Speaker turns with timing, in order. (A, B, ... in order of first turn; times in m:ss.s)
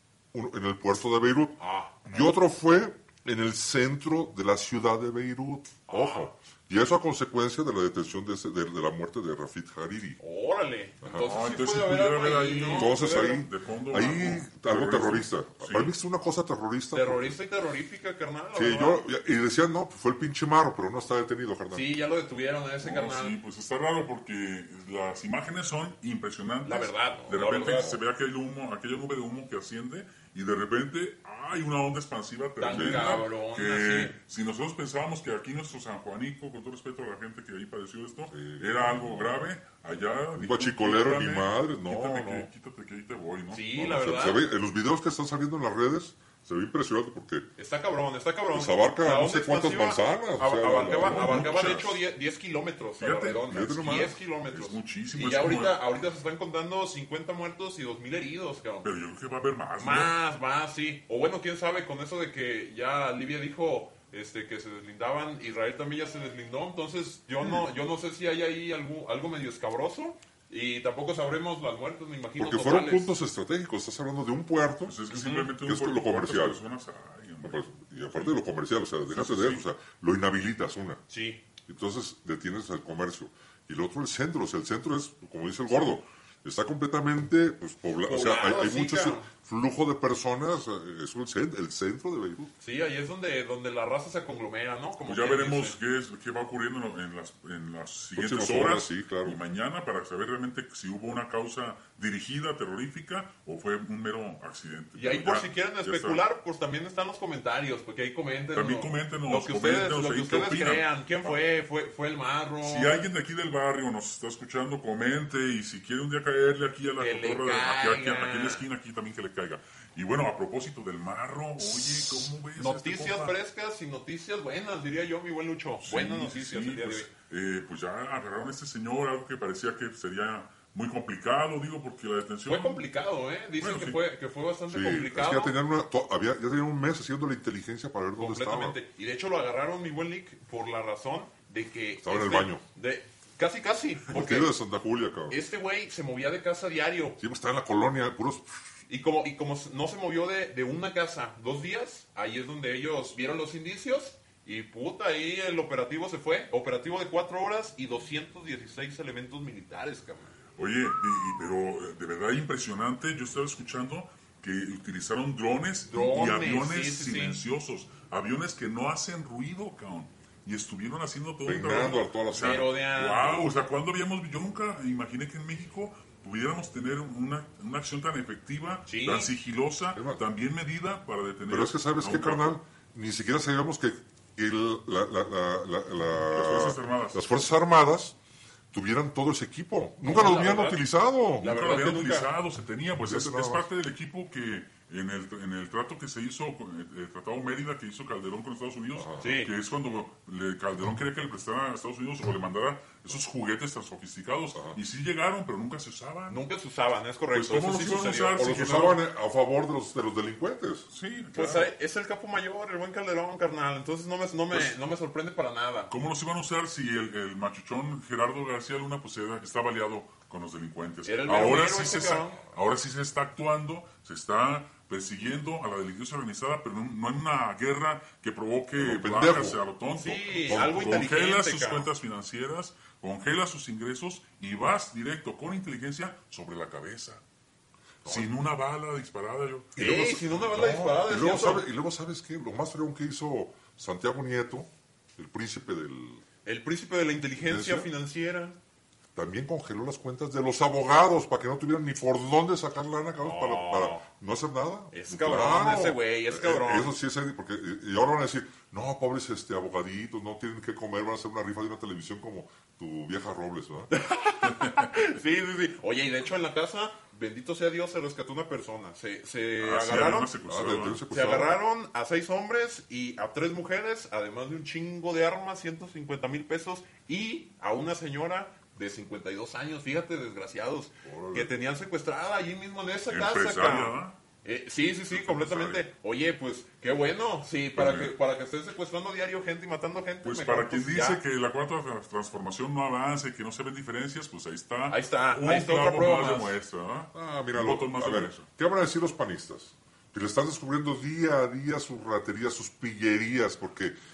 0:00.3-0:10.2 A
0:01.6-0:02.1 B
0:05.9-0:06.3 B
0:10.2-0:13.4 B
0:11.0-0:11.3 A
0:11.2-0:15.9 C
0:12.6-0:17.4 A
0:16.9-0:19.0 B
0:18.5-0:21.9 A
0:21.7-0:23.4 B
0:22.8-0:44.0 C
0:26.6-0:28.0 B
0:32.6-0:34.1 B
0:32.7-0:33.1 A
0:38.3-0:39.4 A
0:40.4-0:42.5 A
0:43.5-0:44.4 B
0:43.8-0:47.5 A
0:47.6-0:58.9 B
0:48.5-0:51.8 A
0:50.9-0:52.0 C
0:53.0-0:55.8 C
0:53.5-0:54.2 A
0:58.8-1:00.1 C
0:59.8-1:13.2 B
1:12.4-1:16.6 A
1:14.8-1:18.4 C
1:17.4-1:21.0 A
1:19.1-1:19.6 C
1:21.1-1:21.4 B
1:21.7-1:32.5 A
1:28.0-1:29.3 B
1:32.6-1:35.8 B
1:35.0-1:46.2 C
1:38.2-1:39.4 A
1:44.9-1:53.0 B
1:48.5-1:51.4 C
1:52.6-2:03.3 C
1:57.0-1:58.6 B
2:01.6-2:07.1 B
2:05.8-2:12.8 C
2:12.4-2:15.6 B
2:13.6-2:14.0 C
2:14.7-2:18.8 A
2:18.2-2:24.5 B
2:22.0-2:22.6 A
2:24.1-2:25.4 A
2:25.3-2:27.2 B
2:27.2-2:28.5 A
2:28.9-2:40.3 B
2:40.6-3:02.6 C
2:45.9-2:47.4 B
2:51.4-2:52.7 A
2:52.3-2:53.5 B
2:58.9-2:59.3 B
3:01.5-3:08.2 A
3:06.3-3:07.5 C
3:08.7-3:11.6 A
3:10.0-3:10.8 B
3:11.4-3:12.3 B
3:11.5-3:26.4 C
3:13.0-3:13.7 A
3:18.9-3:19.2 A
3:19.2-3:19.5 B
3:26.3-3:28.9 B
3:27.3-3:29.0 C
3:27.7-3:30.9 A
3:30.9-3:31.7 C
3:31.3-3:35.9 B
3:34.5-3:34.8 C
3:35.9-3:57.2 C
3:41.0-3:42.4 B
3:48.8-3:49.6 A
3:49.9-3:51.9 B
3:50.5-3:50.8 A
3:58.0-3:59.8 C
3:59.8-4:06.2 A
3:59.8-4:01.7 B
4:06.4-4:08.6 B
4:07.4-4:07.9 A
4:09.1-4:23.9 A
4:13.2-4:14.0 B
4:14.9-4:16.9 B
4:23.9-4:30.3 B
4:24.4-4:24.9 C
4:29.6-4:31.1 C
4:30.4-4:31.6 A
4:31.1-4:51.2 B
4:41.0-4:41.5 A
4:43.1-4:44.2 C
4:45.1-4:45.8 C
4:47.7-4:48.1 C
4:50.2-4:58.4 C
4:54.9-4:56.6 B
4:57.1-5:04.0 A